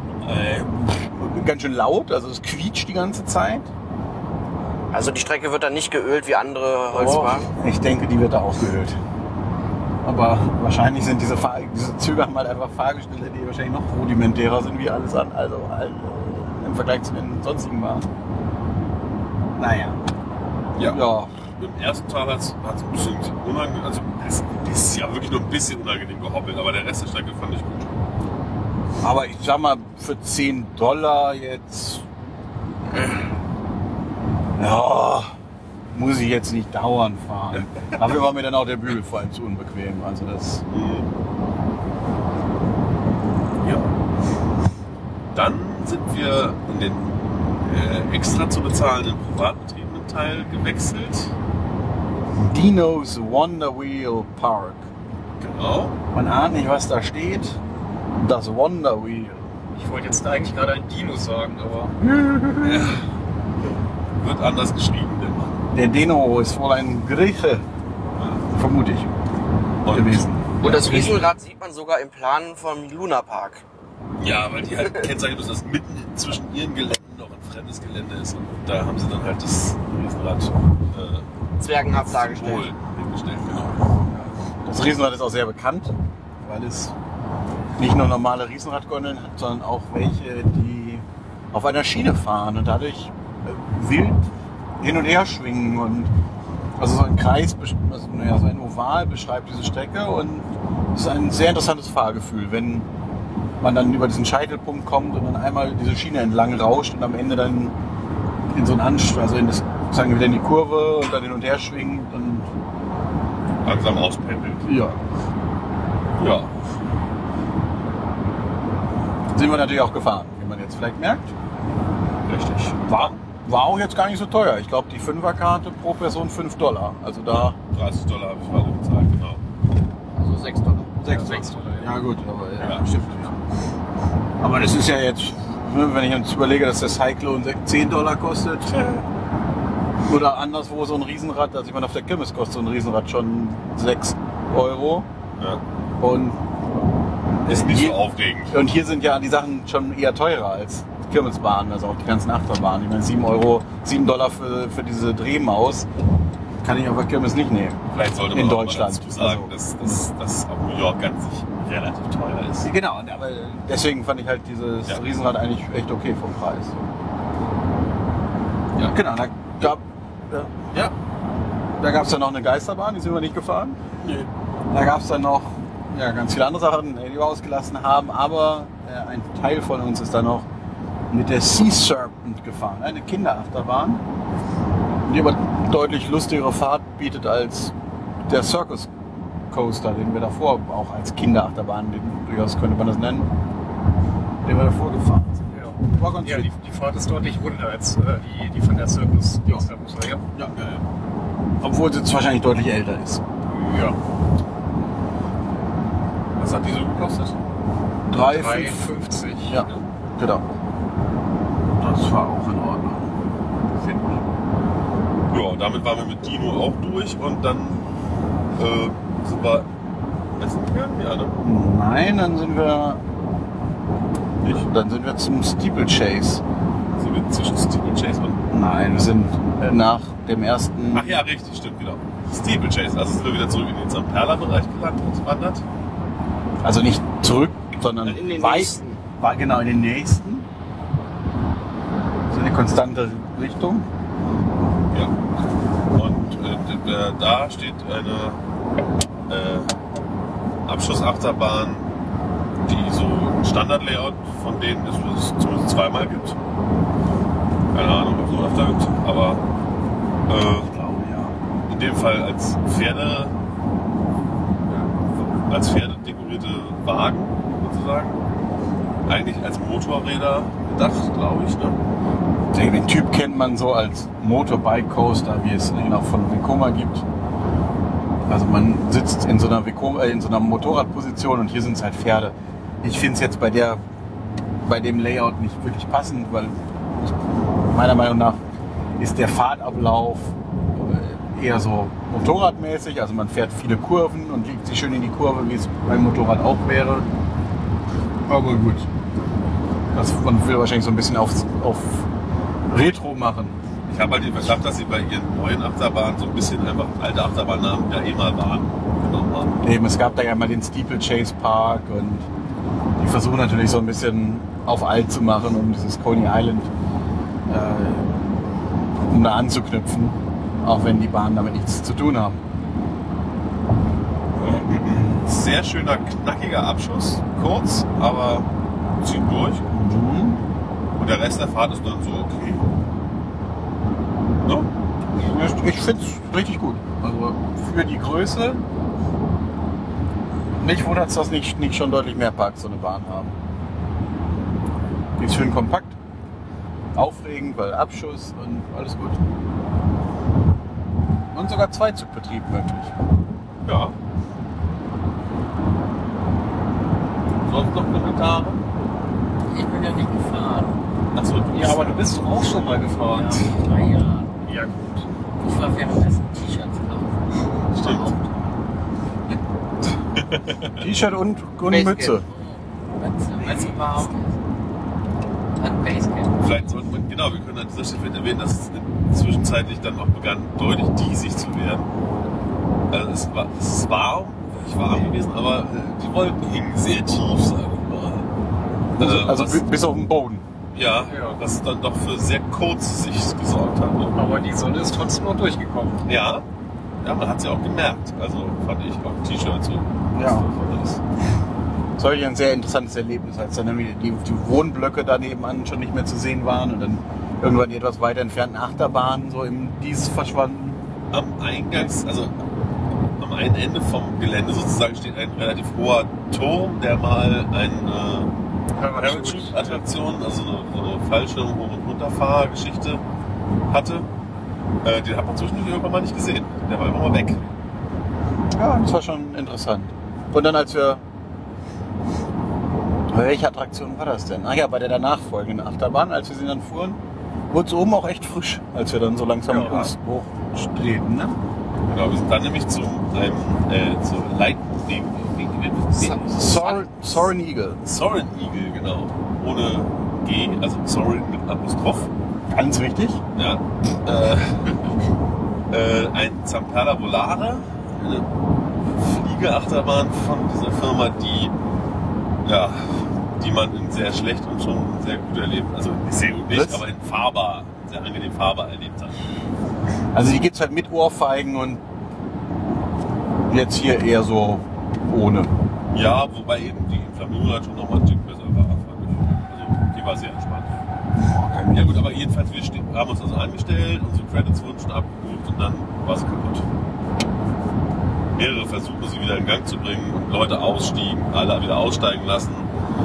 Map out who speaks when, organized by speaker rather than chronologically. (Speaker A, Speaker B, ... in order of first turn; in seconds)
Speaker A: 0.3-3.7, 6.9-9.0, 10.0-18.1, 19.6-20.0, 20.8-21.4, 29.0-32.1, 34.6-35.3, 35.9-40.7, 52.3-54.9, 56.1-57.6, 58.2-59.5, 62.0-63.0, 65.7-67.7, 68.5-69.1, 69.9-71.1, 84.7-86.9, 87.8-94.2, 94.8-96.1, 96.8-102.9, 103.6-107.8, 108.5-112.5, 114.6-115.0, 119.3-121.3, 122.9-127.6, 131.0-133.4, 134.4-139.0, 140.1-145.1, 146.0-146.4, 147.4-155.9, 156.6-160.0, 162.6-166.8, 168.8-170.9, 171.8-173.8, 174.7-180.5, 181.1-184.0, 185.1-187.7, 188.3-188.9, 189.5-193.3, 194.4-196.5, 200.3-200.8, 201.6-203.2, 208.1-208.9, 209.5-210.4, 211.8-213.1, 221.4-223.0, 224.4-226.4, 228.5-231.2, 236.6-240.5, 242.3-243.9, 260.6-261.4, 272.5-277.1, 278.3-283.8, 284.7-287.1, 287.7-288.4, 289.0-297.1, 298.3-298.9, 299.9-302.1, 302.7-303.6, 309.6-312.3, 313.0-316.7, 317.5-318.1, 319.1-322.4, 329.7-330.4, 335.2-338.6, 340.6-343.4, 345.2-346.0, 346.9-349.2, 351.3-352.9, 370.8-372.3, 389.0-390.4, 400.1-400.5, 402.0-410.8, 428.6-431.0, 433.1-437.0, 437.5-441.4, 446.2-447.8, 452.5-453.2, 466.5-466.9, 470.1-471.8, 473.5-475.6, 481.3-482.0
Speaker B: 4.9-7.5, 70.6-73.6, 81.6-82.7, 130.2-130.9, 238.0-239.0
Speaker C: 20.8-28.0, 37.5-38.0, 40.7-41.1, 45.3-51.3, 55.4-56.0, 62.6-63.0, 64.2-65.6, 68.2-68.4, 69.8-71.2, 74.2-81.3, 81.9-83.8, 113.6-114.7, 116.2-116.5, 122.2-123.1, 127.3-129.4, 132.6-132.8, 147.5-148.6, 157.9-162.7, 174.0-174.3, 206.4-207.3, 215.3-217.9, 218.6-219.7, 220.4-221.4, 226.9-228.4, 230.9-235.6, 245.9-248.4, 249.3-249.7, 250.7-251.9, 252.6-256.4, 257.7-259.4, 260.3-260.7, 261.7-263.3, 265.5-268.2, 269.1-271.8, 303.9-309.6, 324.4-329.7, 330.9-332.7, 353.7-353.9, 357.4-358.6, 361.1-362.3, 367.8-368.2, 370.1-370.8, 376.4-381.9, 382.9-388.3, 388.9-389.7, 390.7-394.3, 396.1-396.5, 397.0-401.0, 411.1-412.3, 413.2-418.3, 418.9-423.0, 423.7-424.1, 424.8-427.5, 439.6-439.9, 441.9-446.7, 447.8-452.1, 453.4-454.7, 455.7-458.3, 458.8-461.5, 462.4-469.2, 475.9-480.8, 481.7-486.7, 488.4-492.7
Speaker D: 59.8-61.9, 131.1-131.9, 195.5-200.2, 203.6-204.0, 208.1-209.8, 361.5-363.5, 364.4-365.0, 391.1-391.4, 394.1-396.0, 418.8-419.9, 439.5-439.8
Speaker E: 359.5-360.8, 363.1-364.3, 365.4-368.3, 371.7-374.3, 375.6-376.7